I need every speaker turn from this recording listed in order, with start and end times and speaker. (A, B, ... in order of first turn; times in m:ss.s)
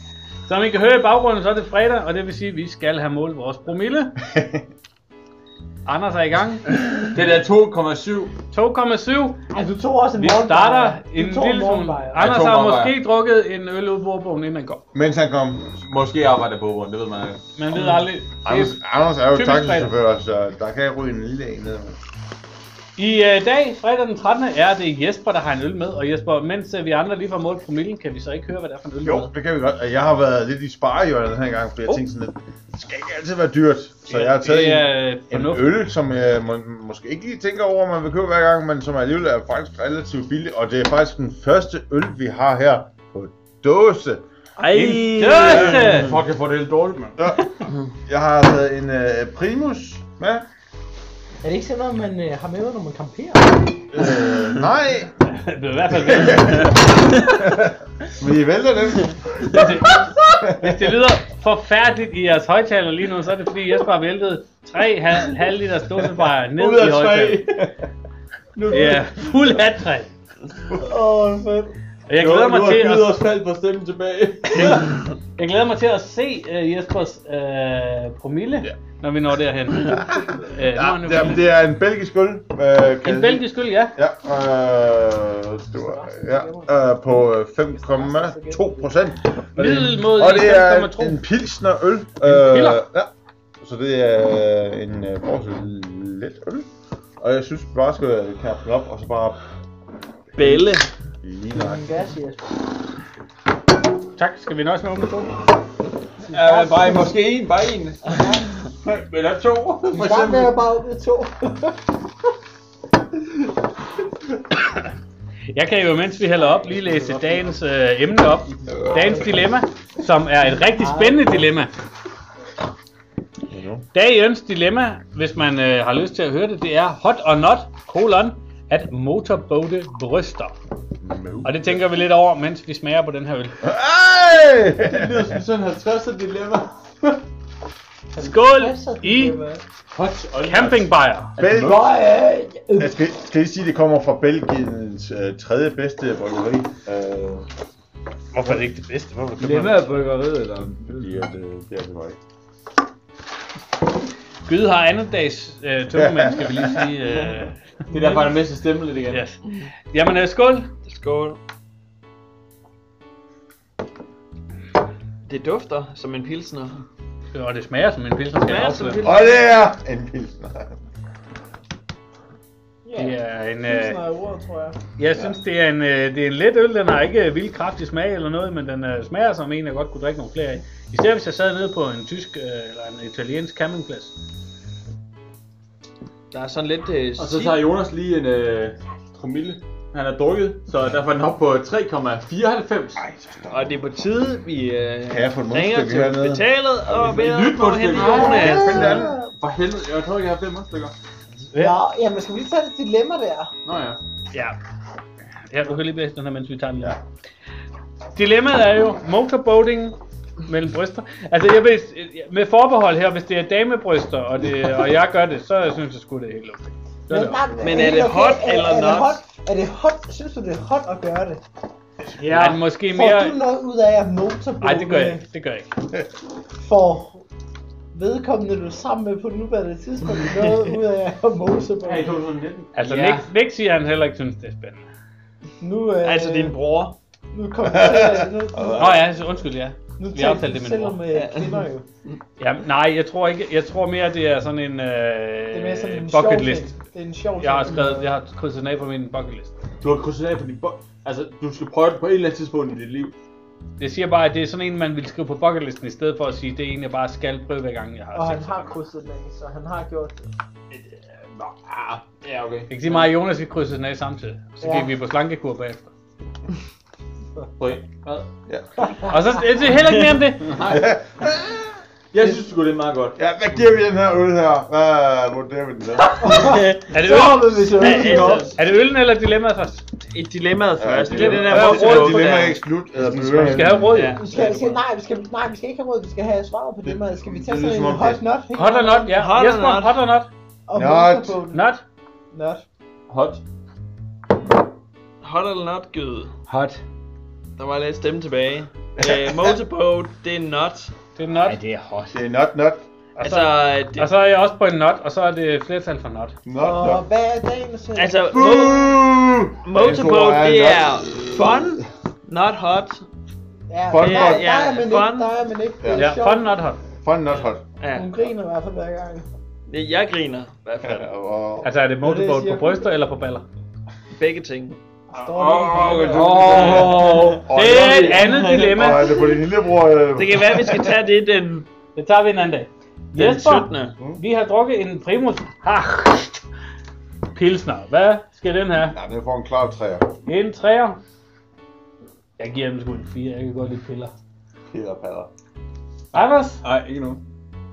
0:00.4-0:04.2 A
0:04.3-0:04.6 B
0:05.8-0:06.6 A
0:06.9-0:08.3 C
0:08.5-0:09.4 A
0:09.5-0:12.3 D
0:10.2-0:14.8 A
0:12.2-0:13.0 C
0:14.9-0:15.7 B
0:15.7-0:17.4 C
0:17.6-0:19.9 A
0:18.4-0:22.0 B
0:23.0-0:29.3 A
0:29.0-0:44.2 B
0:34.1-0:35.7 A
0:44.6-0:46.2 E
0:44.7-0:46.1 A
0:45.4-0:47.2 C
0:48.0-0:50.5 B
0:51.4-0:53.8 D
0:53.9-0:55.1 B
0:55.2-0:56.8 A
0:56.1-0:59.6 B
0:59.5-1:07.5 A
1:00.4-1:00.9 B
1:06.6-1:07.7 C
1:08.7-1:10.1 A
1:10.7-1:11.8 D
1:12.1-1:13.1 A
1:12.2-1:15.0 C
1:15.4-1:21.4 A
1:19.9-1:36.7 B
1:23.0-1:23.9 A
1:25.8-1:28.9 D
1:29.6-1:31.2 A
1:32.2-1:32.8 A
1:37.2-1:39.4 B
1:40.4-1:40.7 B
1:40.4-1:40.9 E
1:41.2-1:41.9 B
1:41.5-1:42.4 D
1:44.2-1:45.4 A
1:46.2-1:47.3 D
1:46.3-1:50.6 C
1:48.0-1:48.5 D
1:49.9-1:51.9 D
1:55.5-2:01.7 A
1:58.9-1:59.2 B
2:00.6-2:01.5 D
2:03.5-2:03.8 B
2:03.9-2:10.5 A
2:11.0-2:11.8 B
2:11.4-2:13.5 A
2:13.6-2:15.3 B
2:14.8-2:17.2 C
2:18.1-2:19.6 D
2:18.2-2:19.4 A
2:19.9-2:21.8 C
2:20.4-2:21.3 A
2:21.4-2:21.9 B
2:21.6-2:22.9 D
2:22.8-2:27.5 B
2:28.3-2:29.9 A
2:29.4-2:29.8 C
2:29.5-2:30.9 E
2:31.0-2:32.2 B
2:34.4-2:37.6 A
2:35.9-2:36.9 B
2:37.9-2:39.2 C
2:39.1-2:39.4 A
2:39.9-2:40.7 A
2:40.8-2:41.4 E
2:45.2-2:46.8 E
2:47.3-2:49.1 A
2:48.4-2:49.6 E
2:49.0-2:50.8 B
2:52.8-2:54.8 D
2:52.9-2:54.0 A
2:55.0-3:04.1 A
3:06.3-3:07.6 E
3:07.2-3:13.0 C
3:13.0-3:13.7 B
3:13.5-3:18.9 E
3:15.1-3:16.4 B
3:16.9-3:20.9 C
3:18.0-3:19.2 D
3:18.2-3:19.2 B
3:21.5-3:21.8 A
3:21.6-3:23.5 D
3:23.6-3:24.0 C
3:24.3-3:24.6 A
3:25.5-3:27.0 A
3:28.1-3:37.4 A
3:37.1-3:41.4 D
3:37.6-3:39.2 E
3:42.2-3:43.4 A
3:42.9-3:45.2 D
3:44.6-3:45.7 A
3:46.6-3:47.2 D
3:47.9-3:52.2 D
3:50.1-3:50.7 E
3:51.8-3:53.3 C
3:52.7-3:54.9 A
3:55.6-3:56.6 D
3:56.0-3:57.0 E
3:57.3-3:58.9 D
3:57.7-3:59.0 B
3:58.7-4:01.0 A
4:00.0-4:01.8 D
4:01.1-4:01.7 E
4:02.4-4:06.7 A
4:05.5-4:08.1 D
4:07.4-4:09.5 A
4:09.8-4:13.1 C
4:13.8-4:18.7 A
4:18.1-4:20.3 D
4:21.4-4:23.1 C
4:22.7-4:25.9 A
4:24.6-4:24.9 D
4:27.6-4:28.2 C
4:28.9-4:29.1 D
4:29.0-4:30.6 A
4:30.5-4:30.9 C
4:30.7-4:31.8 B
4:32.1-4:33.2 C
4:33.2-4:36.1 B
4:36.2-4:38.5 D
4:36.9-4:39.8 A
4:37.8-4:38.6 E
4:37.8-4:38.4 C
4:40.1-4:42.6 E
4:40.8-4:43.9 B
4:41.1-4:42.5 A
4:42.9-4:43.9 C
4:43.4-4:44.2 A
4:43.9-4:44.8 E
4:44.2-4:49.2 D
4:46.8-4:48.2 B
4:48.5-4:50.3 A
4:49.1-4:50.0 E
4:50.7-4:51.6 D
4:50.8-4:51.4 B
4:51.5-4:51.8 A
4:52.3-4:52.6 D
4:53.1-4:53.4 C
4:55.2-4:56.3 E
4:56.5-4:56.8 C
4:57.6-5:00.9 E
4:59.0-4:59.6 B
5:01.2-5:01.6 A
5:01.5-5:02.1 C
5:02.1-5:02.8 B
5:03.2-5:06.3 A
5:03.2-5:04.1 E
5:06.4-5:07.0 B
5:06.6-5:08.7 D
5:08.0-5:08.8 E
5:08.3-5:11.6 B
5:09.6-5:13.0 E
5:13.7-5:16.5 D
5:13.9-5:14.5 B
5:14.0-5:15.3 E
5:15.8-5:16.2 B
5:15.9-5:16.8 A
5:17.0-5:17.6 B
5:17.8-5:18.1 E
5:17.9-5:19.2 D
5:19.7-5:21.1 E
5:20.8-5:21.7 B
5:21.6-5:23.4 A
5:22.0-5:22.9 D
5:24.1-5:24.8 E
5:25.1-5:27.2 D
5:25.2-5:27.5 C
5:25.7-5:29.4 E
5:26.3-5:31.0 B
5:27.5-5:29.1 A
5:30.2-5:31.7 E
5:31.9-5:36.4 A
5:33.1-5:33.9 E
5:37.3-5:39.0 A
5:38.8-5:40.1 B
5:40.2-5:41.0 A
5:42.4-5:44.1 A
5:44.7-5:45.3 B
5:46.1-5:46.6 A
5:46.6-5:47.2 C